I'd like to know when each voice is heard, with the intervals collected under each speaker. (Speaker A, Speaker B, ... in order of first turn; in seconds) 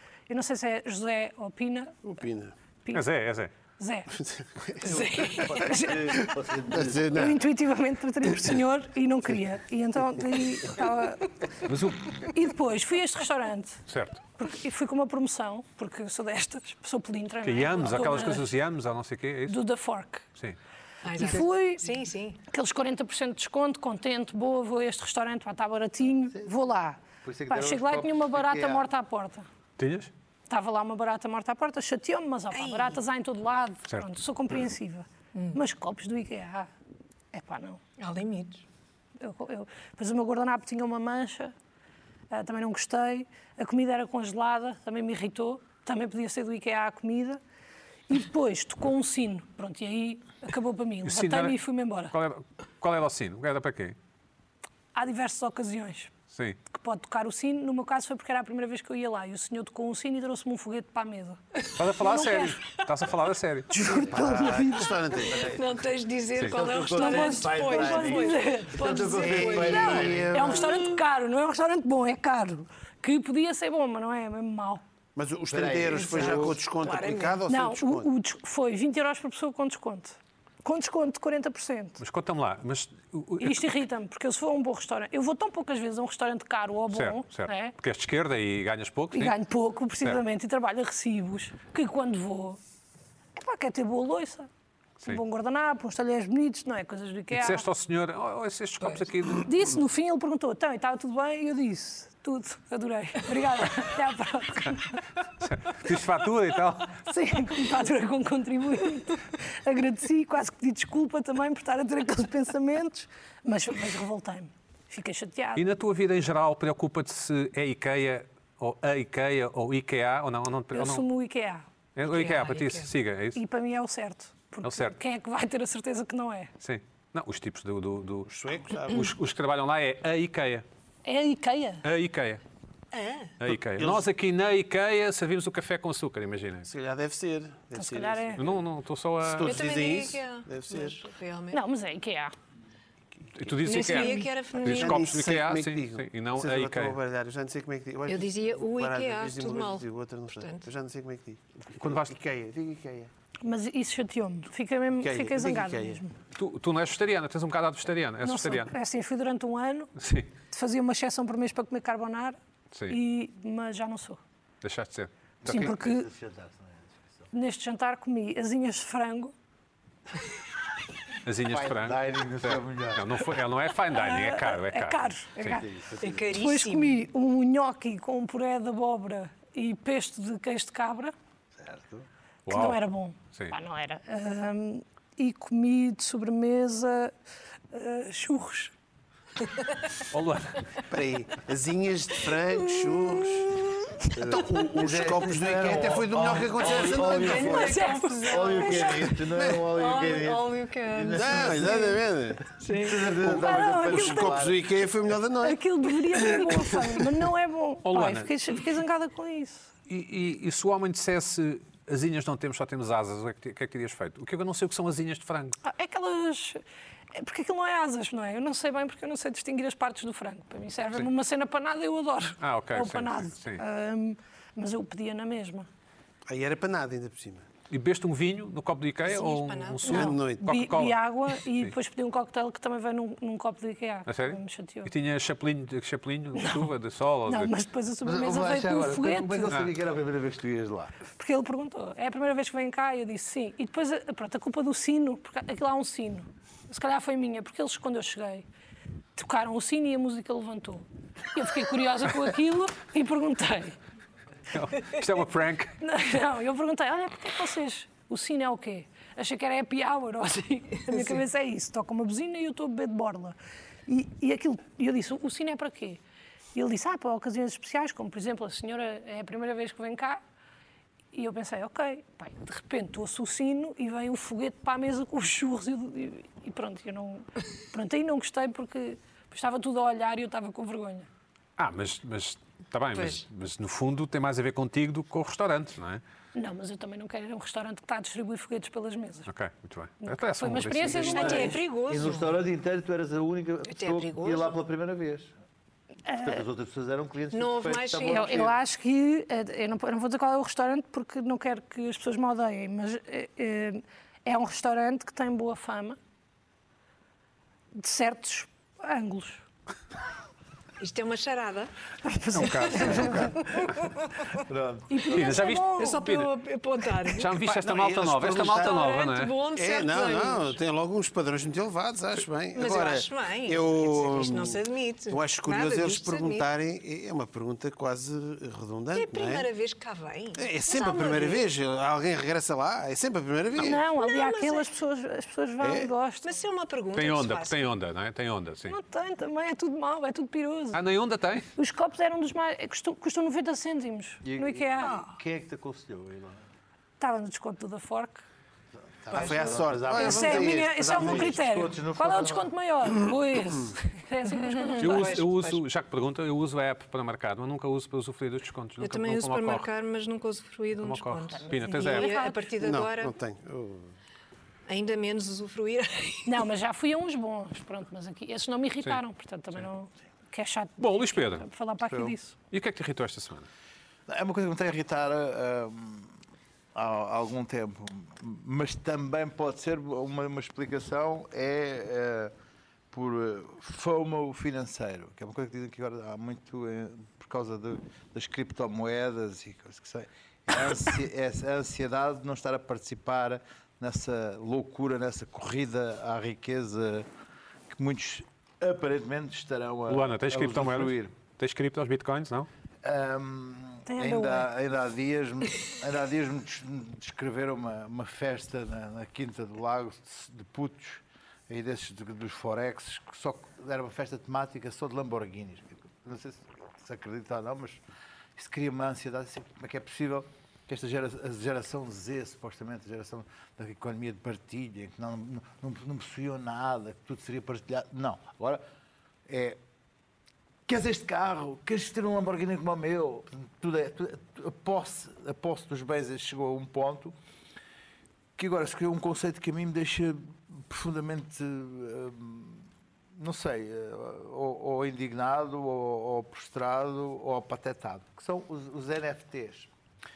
Speaker A: 0.3-2.0, 3.8-4.1, 4.8-6.3, 7.1-13.8, 14.4-18.5, 19.5-20.2, 21.1-21.8, 22.5-29.5, 30.5-36.7, 37.3-37.8, 39.2-41.5, 42.3-47.4, 48.1-52.1, 54.9-56.1, 56.7-62.5, 63.7-65.0, 66.8-74.8, 77.5-82.0, 83.4-87.7, 89.1-92.6, 93.4-94.5, 95.0-97.7, 99.4-105.0, 107.0-115.6, 120.7-121.7, 123.3-126.5, 131.0-131.8, 137.8-138.4, 141.5-142.3, 143.9-144.3, 153.4-156.2, 158.2-159.9, 160.5-162.4, 162.9-164.2, 165.4-166.1, 167.3-169.3, 173.9-175.7, 176.4-181.1, 182.5-187.1, 187.7-188.7, 197.6-198.9, 203.3-204.5, 205.4-209.7, 215.6-216.6, 217.2-225.7, 229.8-234.9, 236.4-236.7, 237.3-239.6, 241.2-248.5, 249.2-253.8, 255.8-263.4, 263.9-266.0, 266.5-270.2, 271.1-281.1, 286.4-289.3, 290.0-291.6, 296.1-296.4, 298.1-306.0, 307.8-309.4, 312.0-313.3, 314.9-316.0, 333.6-336.4, 338.7-340.8, 341.6-345.0, 347.0-348.2, 350.0-355.2, 361.5-362.5, 366.3-372.4, 403.9-404.5
Speaker B: 2.0-2.5, 4.2-5.5, 6.1-7.4, 63.8-65.6, 69.4-70.8, 75.2-78.1, 128.3-129.1, 133.7-134.1, 136.7-138.4, 139.3-141.0, 143.4-143.8, 144.6-153.1, 155.0-156.0, 190.9-197.8, 199.2-199.7, 201.1-207.2, 226.3-227.5, 229.9-230.6, 317.4-318.9, 319.5-329.5, 330.4-333.9, 335.6-335.9, 349.1-351.4, 362.6-363.9
Speaker C: 2.9-3.5, 11.7-12.1, 13.9-14.2, 17.4-19.6, 29.8-30.1, 51.0-51.6, 52.1-54.0, 56.3-56.6, 61.8-63.7, 82.0-83.6, 86.9-89.3, 97.3-99.5, 105.4-107.0, 115.6-121.0, 122.0-123.4, 124.6-125.0, 126.6-130.7, 131.8-132.4, 133.4-136.7, 138.4-139.6, 143.4-147.0, 151.7-152.1, 156.4-158.7, 160.0-160.3, 162.7-163.0, 164.6-165.1, 171.2-175.6, 182.5-182.8, 190.1-190.8, 207.8-208.3, 209.9-215.6, 222.4-223.6, 227.7-231.7, 234.1-237.5, 254.5-255.8, 281.6-286.0, 289.3-291.5, 312.3-313.5, 315.1-316.3, 317.2-319.3, 336.9-338.8, 340.7-341.5, 354.8-359.7, 360.8-362.1, 370.8-371.5, 372.5-373.5, 399.9-402.5
Speaker D: 4.8-7.4, 26.3-26.6, 27.2-28.9, 64.2-64.7, 65.3-65.7, 66.4-70.7, 75.5-76.6, 165.4-167.3, 171.5-173.3, 175.4-176.4, 181.6-182.1, 194.2-202.0, 202.7-204.8, 238.0-241.0, 290.9-295.3, 296.2-298.6, 314.4-315.2, 344.2-346.4, 349.0-352.5, 371.8-372.2, 374.1-376.1, 376.8-382.3, 382.9-397.1, 397.7-401.1, 402.8-417.8, 418.4-428.6, 429.3-429.6, 430.7-437.1, 438.4-449.7
Speaker E: 21.0-22.4, 32.5-33.0, 35.3-35.6, 38.0-38.6, 65.4-70.9, 75.7-77.4, 122.0-122.9, 132.9-133.3, 139.4-141.6, 143.7-145.1, 148.1-150.7, 176.0-177.0, 192.8-193.3, 196.8-202.0, 202.6-203.2, 229.1-230.1, 260.9-261.2, 282.9-283.2, 290.9-292.4, 293.7-294.6, 297.3-298.4, 310.8-311.7, 312.4-314.1, 315.8-317.4, 318.5-320.6, 322.6-326.5, 328.9-331.5, 334.0-334.7, 336.2-337.7, 354.3-355.6, 358.8-363.1, 364.7-366.5